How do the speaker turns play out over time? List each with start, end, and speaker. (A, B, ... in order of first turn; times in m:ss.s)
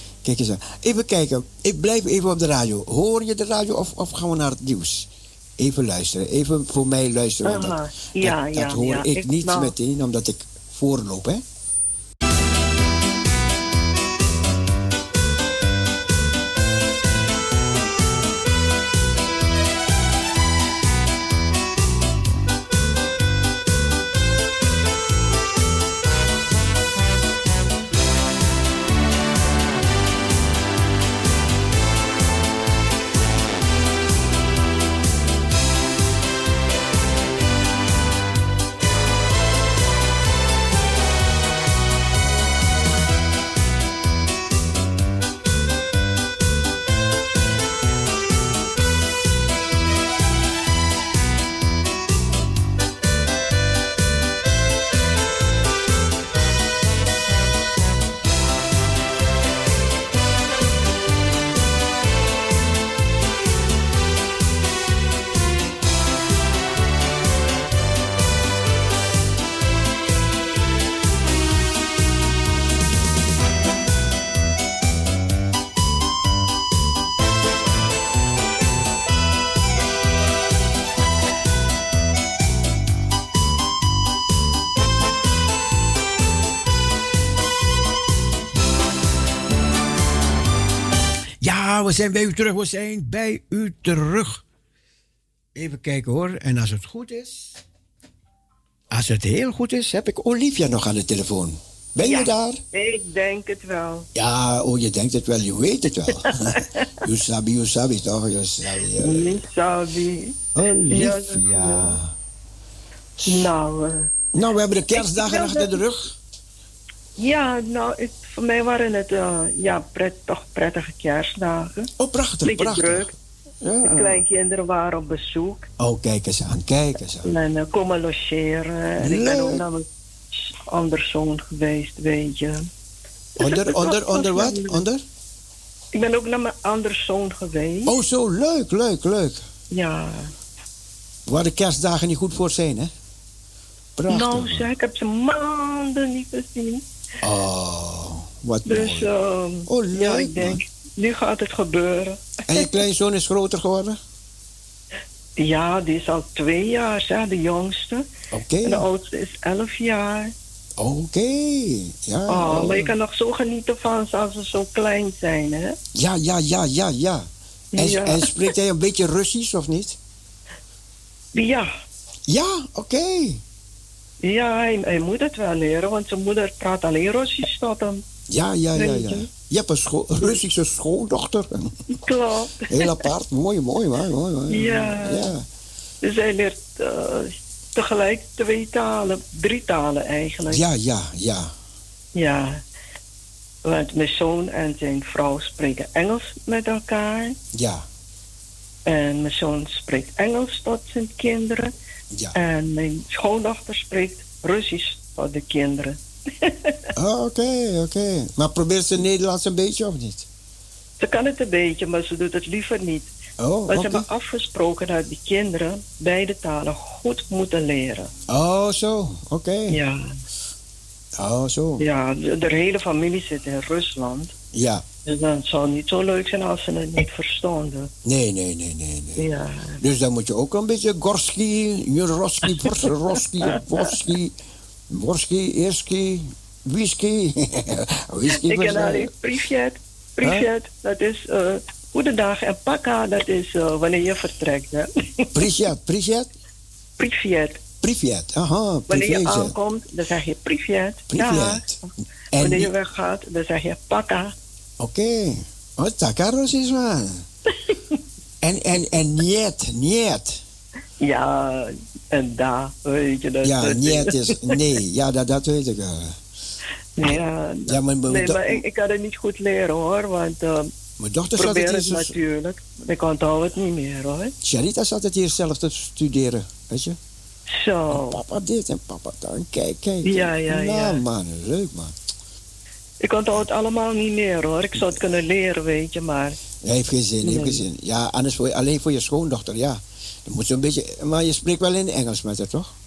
0:00.2-0:11.4 A
0:07.4-0:09.7 B
1:31.4-1:34.4 A
1:35.5-1:37.6 A
1:38.9-1:42.6 A
1:42.0-1:44.1 B
1:44.1-1:49.4 A
1:46.3-1:46.8 B
1:49.0-1:50.4 B
1:50.5-1:52.1 A
1:50.9-1:52.0 B
1:53.2-1:54.1 B
1:54.3-1:56.1 A
1:54.9-1:55.8 B
1:57.2-2:01.9 B
2:02.0-2:03.1 A
2:02.4-2:03.1 B
2:03.6-2:04.2 A
2:03.8-2:05.7 B
2:05.8-2:07.3 A
2:07.2-2:09.8 B
2:09.0-2:09.6 A
2:10.7-2:12.7 B
2:13.4-2:14.8 B
2:13.4-2:15.0 A
2:16.0-2:17.9 B
2:17.8-2:19.4 A
2:19.7-2:20.3 B
2:21.2-2:22.9 A
2:24.0-2:24.7 A
2:24.1-2:26.8 B
2:27.2-2:29.1 A
2:28.6-2:32.7 B
2:29.7-2:30.6 A
2:32.5-2:34.0 A
2:35.4-2:38.0 B
2:38.3-2:38.9 A
2:38.6-2:40.3 B
2:40.8-2:42.9 A
2:42.3-2:45.8 B
2:45.9-2:50.0 A
2:47.7-2:48.5 B
2:51.3-2:51.7 B
2:52.3-2:53.4 A
2:54.2-2:58.0 B
2:58.3-3:01.7 A
2:58.7-2:59.3 B
3:02.0-3:02.9 B
3:02.7-3:05.5 A
3:04.5-3:05.3 B
3:06.0-3:10.6 B
3:10.5-3:11.5 A
3:12.1-3:12.6 B
3:13.6-3:17.4 B
3:17.5-3:17.8 A
3:18.9-3:21.7 B
3:22.3-3:26.9 B
3:27.0-3:30.3 A
3:31.0-3:33.1 B
3:33.4-3:34.0 A
3:33.7-3:38.1 B
3:38.3-3:39.8 A
3:39.7-3:40.1 B
3:41.2-3:41.8 A
3:41.8-3:44.3 B
3:44.5-3:44.8 A
3:45.0-3:47.9 B
3:48.0-3:49.2 A
3:49.2-3:49.8 B
3:49.8-3:54.4 A
3:52.4-3:53.9 B
3:54.9-3:59.1 A
3:58.3-4:05.5 B
4:05.3-4:06.3 A
4:07.0-4:07.6 B
4:07.8-4:09.5 A
4:08.9-4:11.6 B
4:11.1-4:11.8 A
4:12.3-4:12.7 A
4:12.3-4:14.3 B
4:14.8-4:17.2 A
4:18.4-4:20.4 A
4:21.0-4:24.6 B
4:23.4-4:26.2 A
4:27.0-4:30.7 B
4:27.0-4:28.6 A
4:31.0-4:32.1 A
4:31.4-4:34.3 B
4:34.4-4:37.0 A
4:37.5-4:38.2 B
4:37.9-4:42.0 A
4:40.0-4:41.0 B
4:43.0-4:46.4 B
4:46.6-4:52.7 A
4:47.2-4:47.6 B